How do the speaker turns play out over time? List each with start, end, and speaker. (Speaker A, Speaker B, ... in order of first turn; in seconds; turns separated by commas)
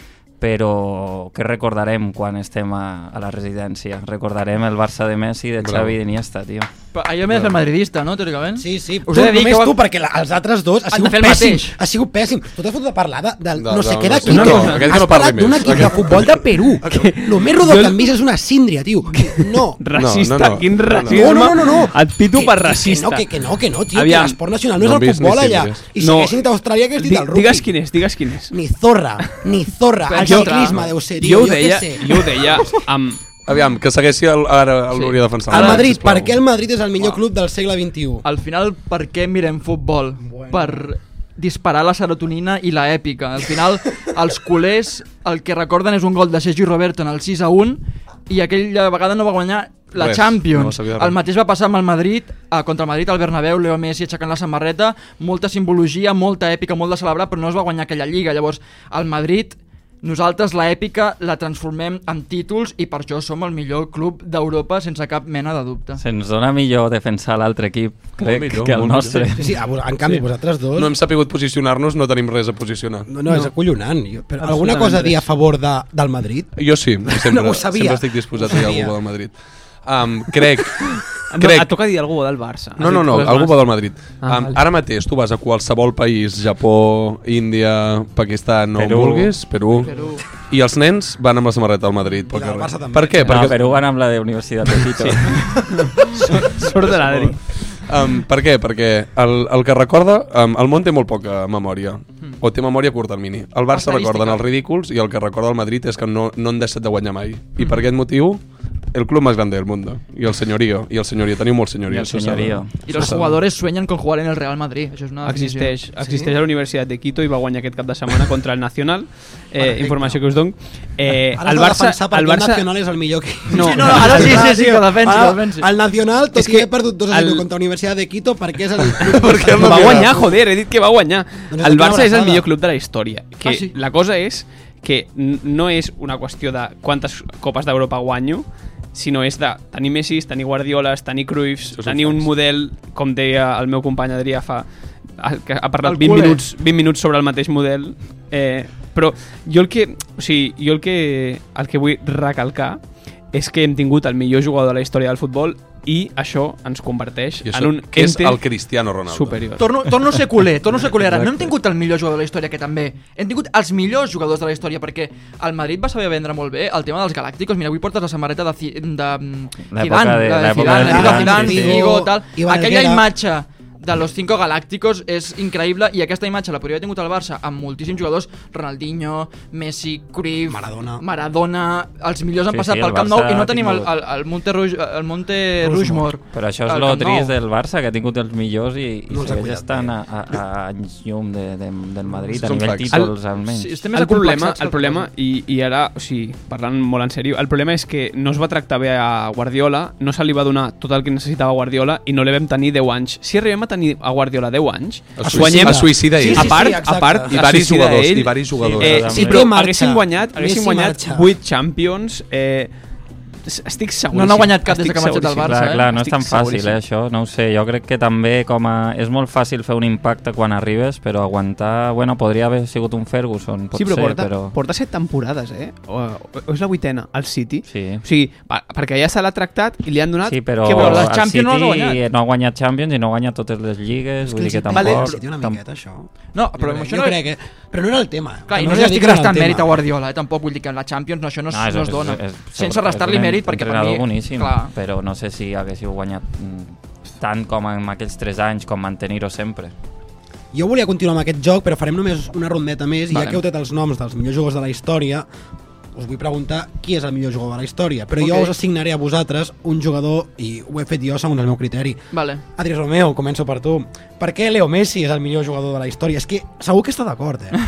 Speaker A: 0.4-6.7, Speaker B: 5.6-6.0, Speaker C: 6.9-9.8, Speaker B: 7.3-7.5, Speaker D: 8.6-19.8, Speaker C: 10.8-11.8, Speaker B: 13.6-16.3, Speaker E: 14.3-14.9, Speaker E: 16.9-18.1, Speaker E: 19.1-23.3, Speaker B: 19.9-21.5, Speaker D: 21.0-27.7, Speaker E: 23.9-24.4, Speaker B: 24.8-25.8, Speaker E: 26.0-26.4, Speaker E: 26.9-28.6, Speaker D: 28.5-32.6, Speaker C: 30.0-30.8, Speaker E: 30.2-33.2, Speaker B: 33.5-36.4, Speaker C: 34.9-35.6, Speaker D: 35.5-38.2, Speaker C: 38.2-66.0, Speaker D: 40.2-40.9, Speaker B: 49.9-51.2, Speaker A: 66.0-69.5, Speaker B: 68.2-69.3, Speaker D: 69.3-70.9, Speaker B: 70.8-73.1, Speaker D: 73.1-78.9, Speaker E: 74.4-75.2, Speaker B: 76.5-81.7, Speaker E: 80.8-84.6, Speaker B: 82.8-93.8, Speaker A: 88.8-89.3, Speaker C: 89.8-90.2, Speaker D: 92.3-93.5, Speaker A: 93.2-95.7, Speaker E: 95.0-97.4, Speaker B: 96.5-108.4, Speaker C: 103.7-104.4, Speaker B: 108.9-113.4, Speaker A: 111.9-113.1, Speaker C: 112.8-115.9, Speaker E: 115.2-122.7, Speaker D: 116.0-116.3, Speaker D: 119.5-120.2, Speaker D: 121.1-130.4, Speaker E: 123.5-124.4, Speaker C: 123.5-125.7, Speaker E: 126.3-127.5, Speaker B: 129.0-130.1, Speaker E: 129.4-144.7, Speaker D: 131.5-132.4, Speaker C: 133.4-133.7, Speaker B: 141.7-142.3, Speaker E: 145.2-152.8, Speaker C: 145.8-146.4, Speaker E: 153.3-158.5, Speaker B: 157.4-159.5, Speaker E: 159.1-159.7, Speaker C: 159.6-187.3, Speaker B: 160.9-161.5, Speaker A: 169.7-171.8, Speaker D: 170.6-173.0, Speaker D: 180.4-181.0, Speaker A: 182.5-183.9, Speaker D: 185.6-186.1, Speaker A: 186.3-193.8, Speaker D: 189.1-190.0, Speaker B: 192.3-193.1, Speaker C: 193.4-195.1, Speaker E: 193.9-212.7, Speaker B: 205.2-209.1, Speaker D: 205.2-207.4, Speaker D: 208.6-211.3, Speaker A: 208.8-209.5, Speaker E: 213.4-216.8, Speaker C: 214.1-215.9, Speaker A: 215.4-224.6, Speaker E: 223.7-231.1, Speaker A: 227.7-228.0, Speaker A: 230.2-235.6, Speaker C: 230.7-232.0, Speaker D: 234.2-239.8, Speaker E: 234.7-235.1, Speaker C: 236.3-237.2, Speaker C: 238.5-244.7, Speaker A: 241.5-249.7, Speaker D: 250.5-255.3, Speaker C: 253.1-253.4, Speaker D: 255.9-262.0, Speaker C: 258.2-258.5, Speaker C: 262.1-262.4, Speaker D: 262.5-267.6